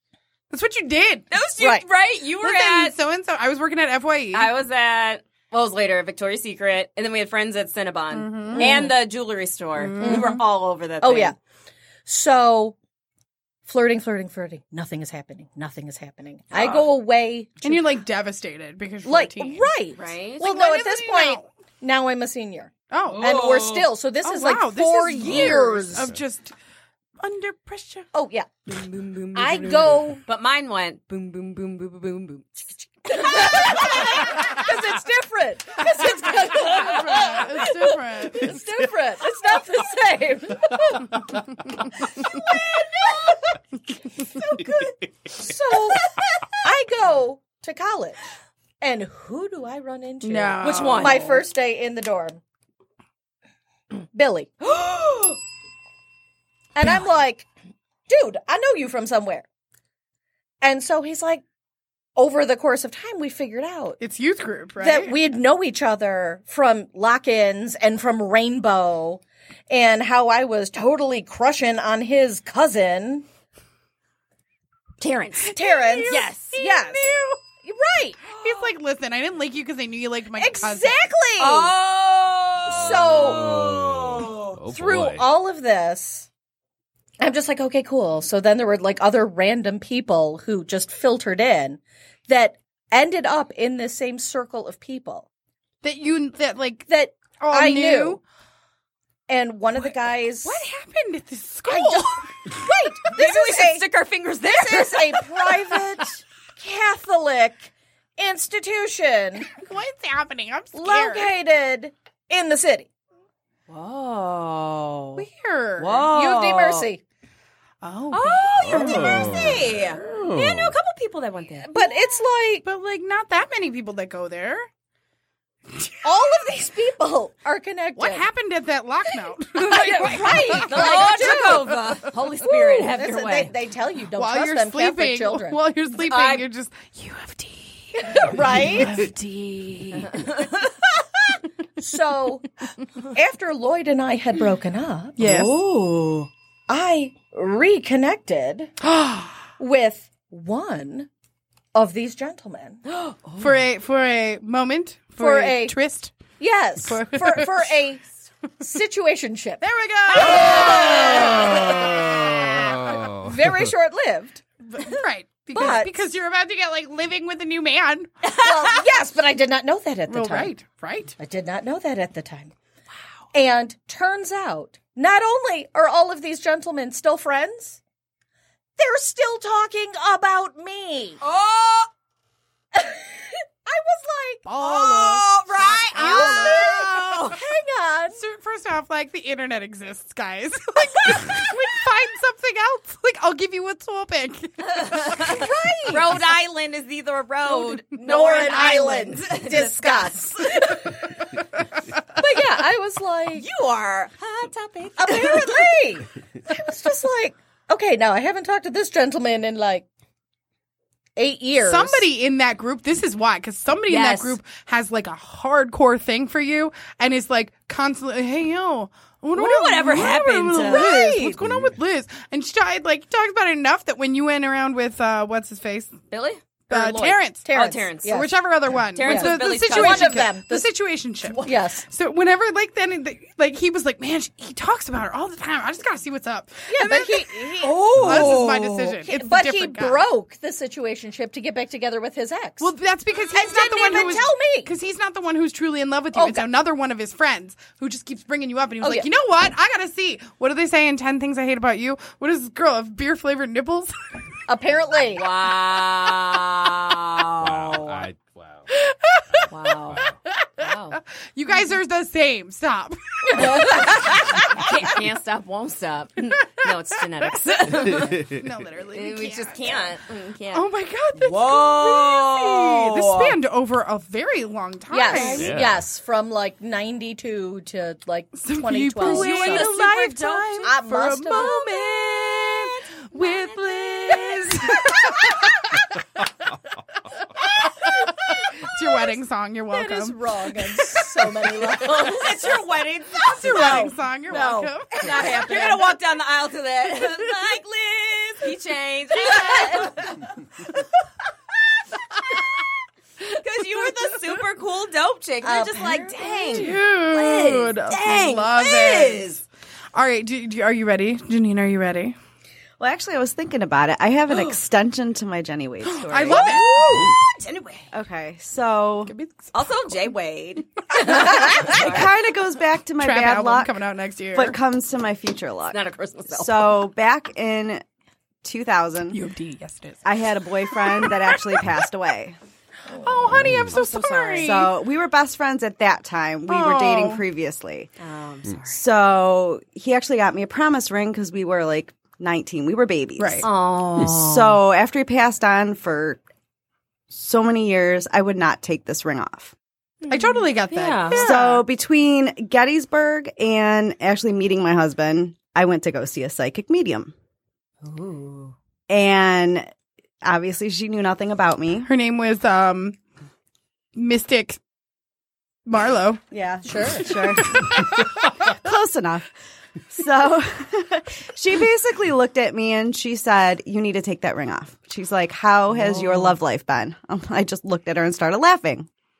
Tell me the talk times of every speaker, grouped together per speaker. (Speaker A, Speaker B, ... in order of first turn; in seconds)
Speaker A: 0.5-1.3, 2.4-4.5, 8.1-8.7, 9.8-10.4, 17.6-19.7, 20.4-21.5, 22.9-23.4, 24.2-26.5, 27.2-28.1, 36.4-38.5, 50.2-51.2, 64.0-65.2, 75.4-77.4, 78.4-81.0, 95.8-98.2, 99.8-102.5, 109.5-111.3, 115.2-116.1, 117.8-119.7, 122.6-124.7, 128.0-131.9, 134.2-140.3, 145.2-145.6, 148.9-149.3, 153.4-156.2, 156.8-157.7, 159.6-161.7, 164.7-168.1, 170.1-171.2, 184.4-186.8, 188.2-195.5, 197.5-197.8, 211.6-225.9, 226.7-227.5, 228.1-237.3, 237.9-240.0, 242.6-253.9, 258.8-259.2, 261.4-264.0, 268.0-269.9, 270.5-275.6, 278.4-285.4, 288.6-290.2, 293.2-295.8, 299.3-299.8, 306.5-309.4, 309.9-312.2, 315.8-317.1, 319.1-319.5, 323.0-324.6, 329.1-330.1, 330.7-331.4, 333.0-334.7, 336.5-337.2, 343.2-343.5, 350.1-351.6, 361.9-363.0, 363.9-364.6, 365.7-366.2, 367.4-368.0
Speaker B: 1.3-3.0, 4.3-11.3, 20.0-20.5, 23.1-23.9, 28.7-32.5, 50.6-51.4, 54.7-55.4, 75.0-76.6, 78.3-78.7, 81.4-84.5, 103.1-105.4, 113.7-115.2, 115.8-116.9, 118.1-121.7, 129.6-133.5, 136.0-136.4, 140.1-140.5, 145.2-146.3, 152.9-153.5, 160.2-161.8, 168.2-168.8, 181.2-181.9, 184.6-187.4, 194.7-200.9, 203.3-205.7, 213.9-214.4, 219.3-220.9, 226.1-228.2, 228.9-230.2, 237.6-238.9, 255.1-258.1, 259.5-261.0, 263.4-268.3, 268.9-273.4, 279.0-285.0, 291.8-300.4, 303.2-309.4, 316.3-317.9, 319.5-322.1, 325.7-326.8, 333.6-334.7, 338.0-338.8, 343.4-344.6, 350.0-351.3, 357.8-358.6, 375.7-376.4
Speaker C: 1.6-1.9, 8.5-8.9, 10.0-10.4, 11.0-11.3, 12.1-12.8, 13.7-17.8, 19.1-26.1, 28.1-28.5, 29.3-30.2, 32.8-41.2, 42.2-43.4, 44.5-48.2, 48.8-52.4, 54.1-54.5, 56.8-57.5, 58.1-59.5, 60.6-61.4, 62.2-64.0, 64.8-73.3, 75.5-78.2, 80.4-81.7, 82.7-83.5, 84.7-86.3, 87.2-95.3, 96.9-98.2, 99.3-100.6, 101.7-103.9, 104.4-109.5, 110.7-112.9, 116.0-117.0, 121.6-122.6, 126.0-128.3, 129.6-131.7, 132.4-135.6, 138.0-139.0, 141.8-142.5, 143.1-145.2, 146.7-148.8, 149.6-151.1, 151.7-152.8, 155.2-155.8, 156.4-158.1, 158.6-159.6, 160.1-164.4, 165.5-165.9, 168.4-170.5, 171.2-172.5, 173.3-177.8, 178.8-181.2, 182.7-188.2, 195.2-196.2, 198.0-201.2, 202.2-203.5, 205.0-209.9, 211.2-212.1, 220.6-221.3, 227.4-228.3, 229.0-230.7, 231.4-231.9, 236.7-242.7, 243.3-244.7, 246.1-246.5, 248.8-249.1, 254.5-255.2, 263.4-264.0, 274.9-279.7, 280.6-281.6, 289.7-292.5, 293.4-295.7, 299.4-299.9, 305.4-306.7, 366.6-367.1
Speaker D: 82.7-85.3, 118.6-120.8, 162.2-163.7, 221.4-221.8, 257.4-258.6, 267.9-268.5, 275.4-275.8, 333.3-333.8
Speaker E: 312.8-316.6, 317.9-319.1, 321.0-323.7, 324.3-327.8, 328.4-329.2, 330.1-332.4, 334.4-337.9, 338.6-346.2, 347.1-349.5, 351.1-357.1, 358.9-359.7, 360.2-361.9, 366.3-369.3, 369.9-378.9